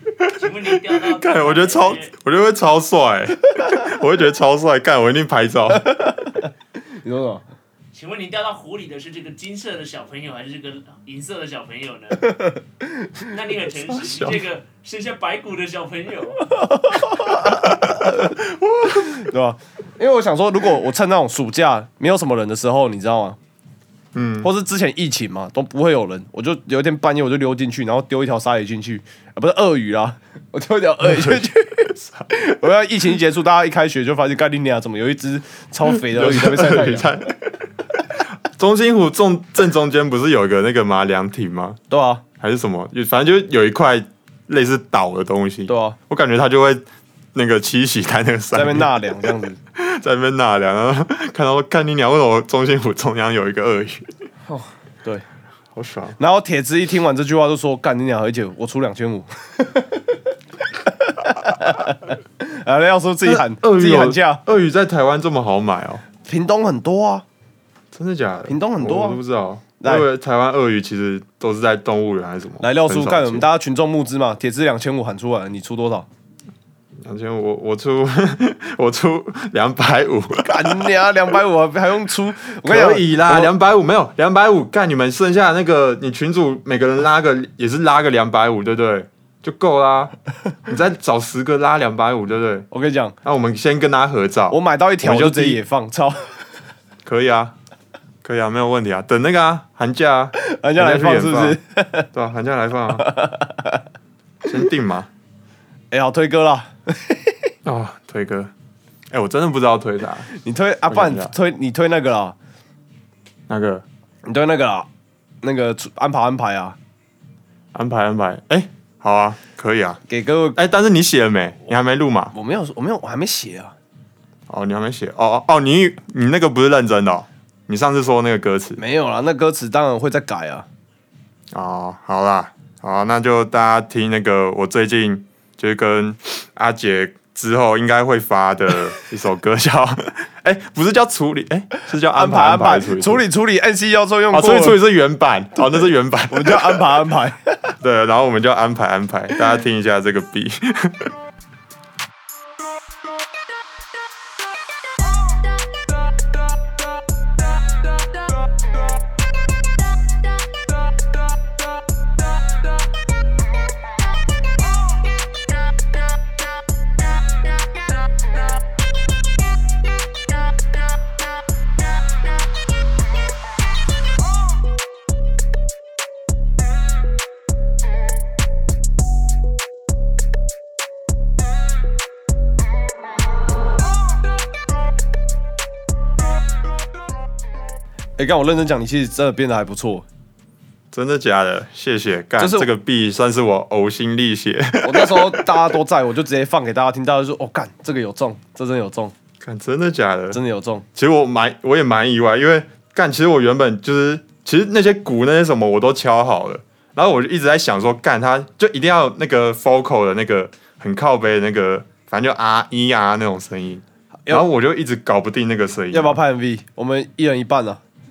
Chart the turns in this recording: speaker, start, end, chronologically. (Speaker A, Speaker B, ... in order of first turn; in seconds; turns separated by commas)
Speaker A: 0.2-5.9, Speaker B: 0.3-2.1, Speaker C: 7.0-7.4, Speaker B: 7.9-12.5, Speaker B: 13.2-16.4, Speaker A: 13.8-14.4, Speaker C: 16.6-18.3, Speaker A: 17.9-19.1, Speaker C: 19.1-23.4, Speaker A: 24.1-24.5, Speaker C: 24.4-37.1, Speaker A: 31.0-32.3, Speaker A: 35.8-37.4, Speaker A: 38.2-41.8, Speaker C: 41.9-42.2, Speaker A: 42.4-49.1, Speaker C: 45.7-46.0, Speaker C: 48.5-49.6, Speaker A: 49.7-54.1, Speaker C: 54.5-55.2, Speaker A: 55.7-56.2, Speaker C: 56.2-60.2, Speaker C: 60.9-64.4, Speaker A: 63.2-66.0, Speaker C: 66.2-67.2, Speaker A: 67.9-73.5, Speaker C: 68.5-69.2, Speaker C: 69.8-70.1, Speaker C: 72.6-76.1, Speaker A: 77.0-80.9, Speaker C: 80.4-83.5, Speaker A: 82.6-90.1, Speaker A: 90.7-92.7, Speaker C: 92.7-93.2, Speaker A: 93.2-95.6, Speaker C: 94.5-96.3, Speaker A: 97.0-97.5, Speaker A: 98.2-101.6, Speaker C: 100.4-102.1, Speaker A: 102.1-103.1, Speaker C: 103.0-103.8, Speaker A: 104.4-105.1, Speaker C: 105.9-107.3, Speaker A: 107.6-108.5, Speaker A: 109.1-110.3, Speaker C: 110.3-112.3, Speaker A: 110.9-111.3, Speaker A: 113.5-113.8, Speaker C: 114.2-114.9, Speaker C: 115.4-116.8, Speaker A: 117.7-120.0, Speaker C: 120.1-120.6, Speaker A: 120.5-122.3, Speaker C: 122.3-123.7, Speaker A: 124.5-128.8, Speaker C: 128.8-130.7, Speaker A: 131.5-143.2, Speaker C: 142.1-144.8, Speaker A: 144.3-146.9, Speaker C: 146.3-147.7, Speaker A: 147.8-151.1, Speaker C: 188.2-190.1, Speaker A: 190.9-195.7, Speaker C: 192.4-192.7, Speaker C: 194.8-199.1, Speaker A: 199.4-200.4, Speaker C: 200.3-200.8, Speaker A: 200.9-216.2, Speaker C: 215.9-217.8